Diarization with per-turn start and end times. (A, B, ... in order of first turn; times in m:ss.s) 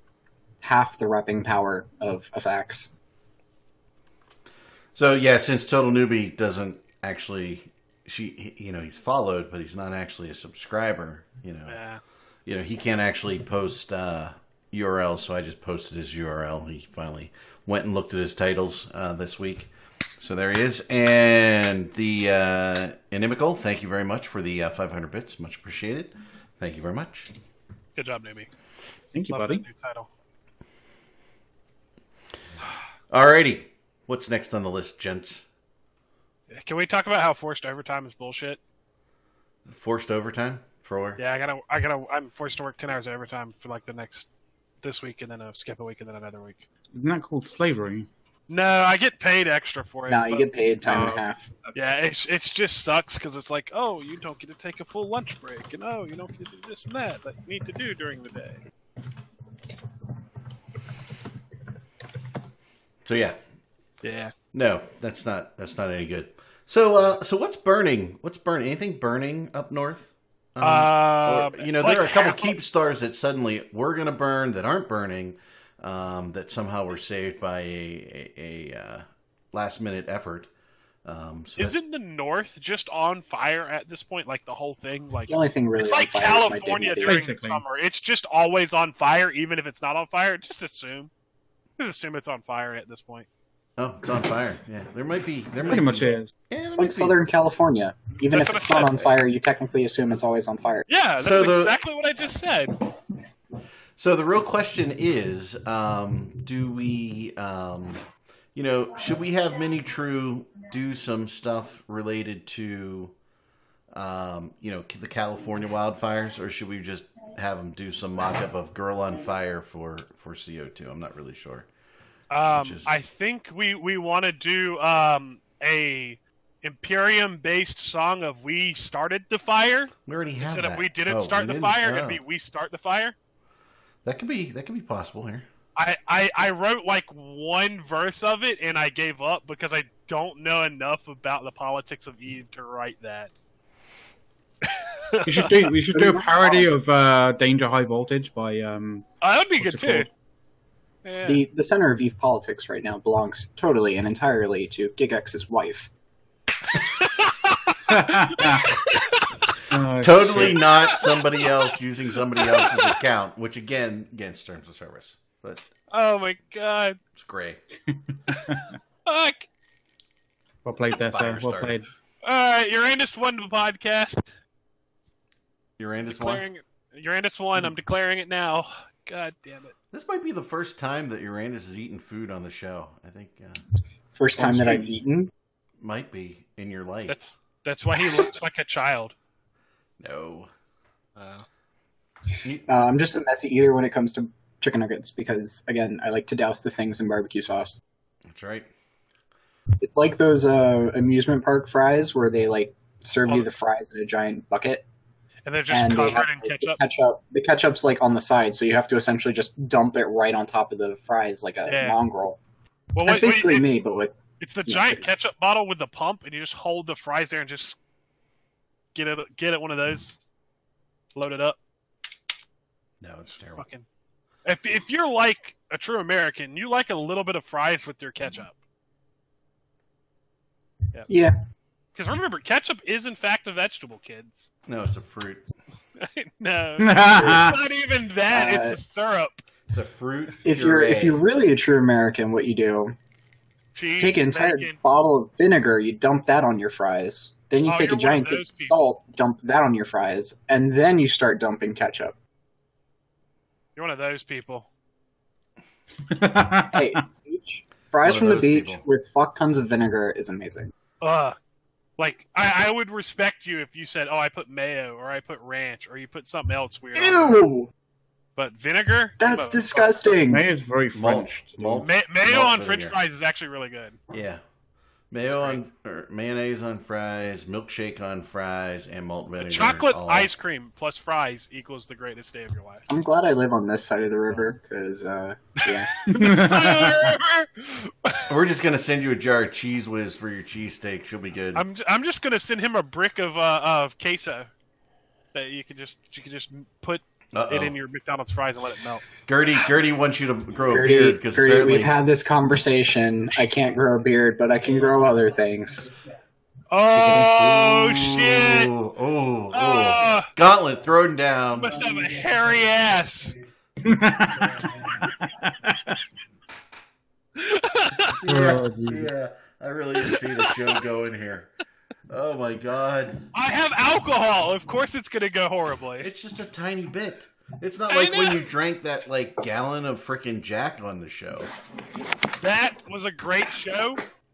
0:00.6-0:02.9 A
0:04.9-0:11.8 B
0:11.7-0:12.0 C
0:12.4-0:27.3 B
0:28.0-0:28.5 C
0:29.1-0:29.6 D
0:29.3-0:30.1 C
0:33.1-0:35.4 B
0:36.5-0:38.6 C
0:39.7-0:41.2 B
0:41.2-0:44.3 C
0:44.8-0:46.6 C
0:46.9-0:48.1 D
0:48.5-0:50.5 C
0:50.1-0:51.5 A
0:50.8-0:51.8 D
0:51.7-0:58.6 C
1:03.0-1:03.4 B
1:04.0-1:04.3 C
1:04.5-1:20.5 B
1:10.6-1:12.5 C
1:21.0-1:21.8 B
1:21.6-1:31.1 C
1:25.3-1:27.2 A
1:27.0-1:27.6 D
1:31.8-1:33.3 C
1:33.8-1:37.2 B
1:35.7-1:36.3 D
1:36.7-1:40.9 A
1:38.3-1:39.1 C
1:40.9-1:42.8 C
1:41.2-1:41.8 B
1:44.0-1:48.0 B
1:48.5-1:53.1 B
1:53.9-2:01.7 B
2:02.3-2:13.1 C
2:02.5-2:03.0 B
2:10.1-2:12.2 B
2:14.0-2:15.4 B
2:15.8-2:23.3 C
2:24.6-2:25.5 C
2:25.2-2:29.1 D
2:25.9-2:26.7 A
2:29.2-2:30.1 C
2:29.6-2:30.1 D
2:31.0-2:31.4 C
2:31.2-2:35.9 A
2:36.7-2:39.3 C
2:37.9-2:38.7 D
2:39.7-2:40.6 D
2:40.0-2:45.7 B
2:42.4-2:42.9 C
2:45.9-2:47.0 C
2:47.1-2:47.6 B
2:47.9-2:48.7 D
2:48.3-2:49.5 C
2:50.6-2:51.9 D
2:51.0-2:51.7 B
2:52.2-2:54.3 C
2:55.8-2:56.4 B
2:56.1-2:59.7 C
2:59.9-3:03.6 B
3:04.1-3:05.3 A
3:04.4-3:04.9 D
3:05.8-3:07.2 B
3:07.1-3:09.1 C
3:10.0-3:10.5 B
3:11.2-3:11.4 C
3:12.7-3:17.8 A
3:18.3-3:18.7 B
3:19.8-3:24.8 A
3:25.4-3:26.8 C
3:25.7-3:32.4 A
3:31.6-3:32.0 C
3:32.9-3:33.7 C
3:33.0-3:35.1 A
3:34.4-3:37.8 C
3:38.9-3:40.2 C
3:41.1-3:41.6 C
3:43.0-3:43.6 B
3:43.4-3:43.8 C
3:44.4-3:48.5 C
3:51.1-3:51.4 A
3:51.9-3:54.5 C
3:54.7-3:55.5 B
3:56.0-3:59.4 C
3:56.8-3:57.6 D
3:57.1-3:57.4 A
3:58.3-3:58.8 A
3:59.7-4:01.2 B
4:00.4-4:02.9 A
4:03.7-4:04.8 C
4:04.0-4:12.1 A
4:07.6-4:08.8 C
4:13.8-4:14.7 C
4:16.1-4:17.0 D
4:16.7-4:20.7 A
4:18.0-4:18.8 B
4:21.0-4:21.4 C
4:22.0-4:27.4 C
4:26.9-4:27.7 A
4:28.4-4:30.2 C
4:29.2-4:30.5 A
4:30.3-4:31.9 D
4:30.9-4:33.0 B
4:31.8-4:34.0 C
4:34.1-4:34.4 B
4:35.1-4:40.3 B
4:35.2-4:35.6 C
4:39.4-4:42.8 C
4:42.9-4:45.9 A
4:45.9-4:48.3 C
4:46.1-4:47.1 D
4:48.3-4:51.6 B
4:51.5-4:54.5 C
4:55.3-4:59.1 C
4:57.3-4:57.7 B
4:59.3-5:01.9 B
5:00.7-5:05.9 A
5:06.7-5:08.7 C
5:07.0-5:07.4 D
5:07.4-5:11.8 B
5:09.5-5:10.3 C
5:11.6-5:13.4 C
5:13.8-5:16.0 D
5:17.4-5:18.1 C
5:18.2-5:21.5 B
5:18.2-5:19.1 D
5:20.0-5:20.6 C
5:22.1-5:23.2 B
5:23.3-5:26.1 C
5:26.0-5:31.5 B
5:27.9-5:28.4 C
5:32.4-5:34.0 C